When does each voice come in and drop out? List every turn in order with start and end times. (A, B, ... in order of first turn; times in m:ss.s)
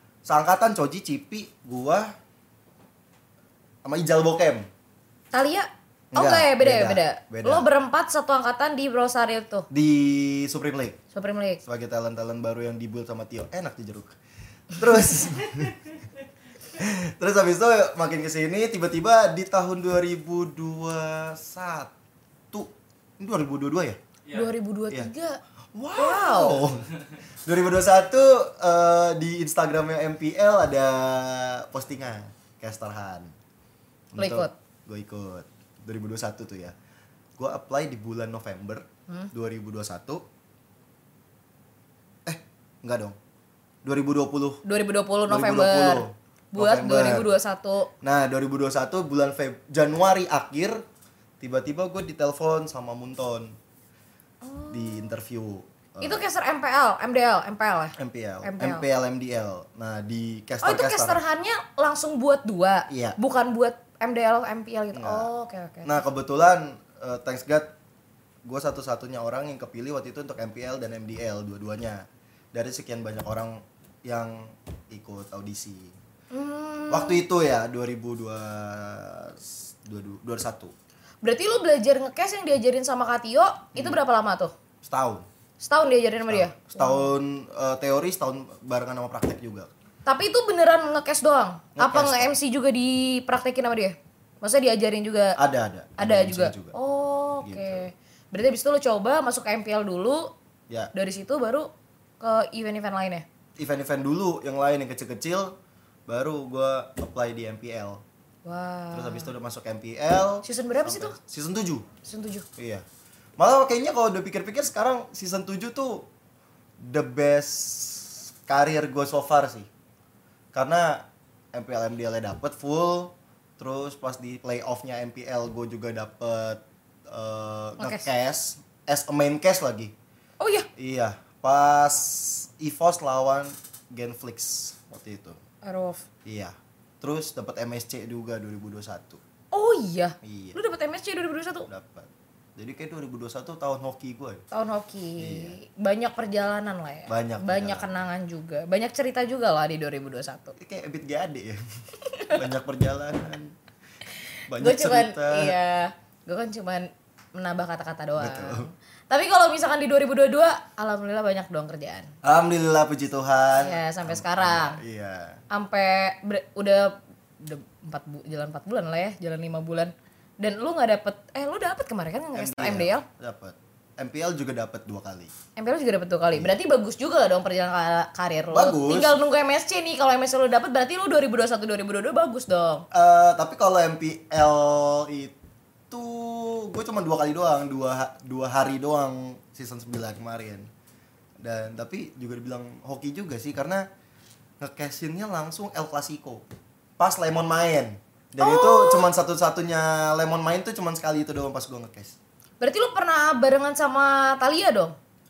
0:00.2-0:02.1 A
0:03.8-0:04.7 A
0:05.3-0:09.7 B
0:06.1-0:07.7 A
0:09.7-0:11.0 A
0:11.1-0:11.6 B
0:11.6-0:14.2 A
0:14.7-0:15.9 A
0:16.7-0:21.9 A
0:22.5-0:24.0 A
0:24.3-0:25.4 B
0:25.7-0:26.9 A
0:25.9-0:26.6 B
0:27.4-0:33.3 A
0:34.1-0:36.8 A
0:34.2-0:34.5 B
0:37.4-0:40.2 A
0:42.2-0:43.2 A
0:43.8-0:44.6 A
0:44.6-0:47.9 B
0:45.3-0:47.3 A
0:48.0-0:50.8 A
0:51.4-0:53.6 A
0:54.4-0:55.1 B
0:54.7-0:56.2 A
0:56.0-0:58.8 B
0:58.0-1:01.2 A
1:00.6-1:06.0 B
1:02.9-1:03.2 A
1:04.9-1:05.3 A
1:05.8-1:07.7 A
1:08.4-1:15.9 A
1:16.3-1:17.2 B
1:16.9-1:20.7 A
1:21.2-1:24.5 B
1:24.8-1:25.2 A
1:25.6-1:27.1 B
1:26.3-1:29.7 A
1:30.1-1:35.4 B
1:31.8-1:32.3 A
1:35.4-1:36.8 A
1:36.0-1:40.3 B
1:37.4-1:37.8 A
1:40.9-1:43.2 B
1:43.6-1:45.6 A
1:46.1-1:48.0 A
1:48.4-1:49.3 B
1:48.9-1:51.9 A
1:50.4-1:51.2 B
1:52.0-1:52.5 B
1:52.6-1:52.8 A
1:53.4-1:56.1 A
1:56.8-1:59.7 A
2:00.5-2:09.9 A
2:07.8-2:08.0 B
2:10.4-2:10.7 B
2:10.8-2:15.4 A
2:15.6-2:16.0 B
2:16.2-2:19.2 A
2:19.5-2:21.7 B
2:20.2-2:20.6 A
2:21.7-2:24.4 A
2:24.5-2:30.6 B
2:25.2-2:25.6 A
2:27.1-2:28.0 A
2:30.6-2:31.6 A
2:32.0-2:32.4 B
2:32.3-2:33.5 A
2:34.5-2:35.6 A
2:34.6-2:42.1 B
2:38.2-2:38.7 A
2:42.2-2:45.4 A
2:43.6-2:44.8 B
2:45.5-2:53.0 B
2:52.3-2:55.3 A
2:55.6-3:02.9 B
2:58.5-2:59.2 A
3:02.9-3:05.3 A
3:05.9-3:10.7 A
3:11.4-3:13.9 A
3:14.6-3:16.4 A
3:17.0-3:22.2 A
3:18.4-3:19.1 B
3:22.6-3:24.9 B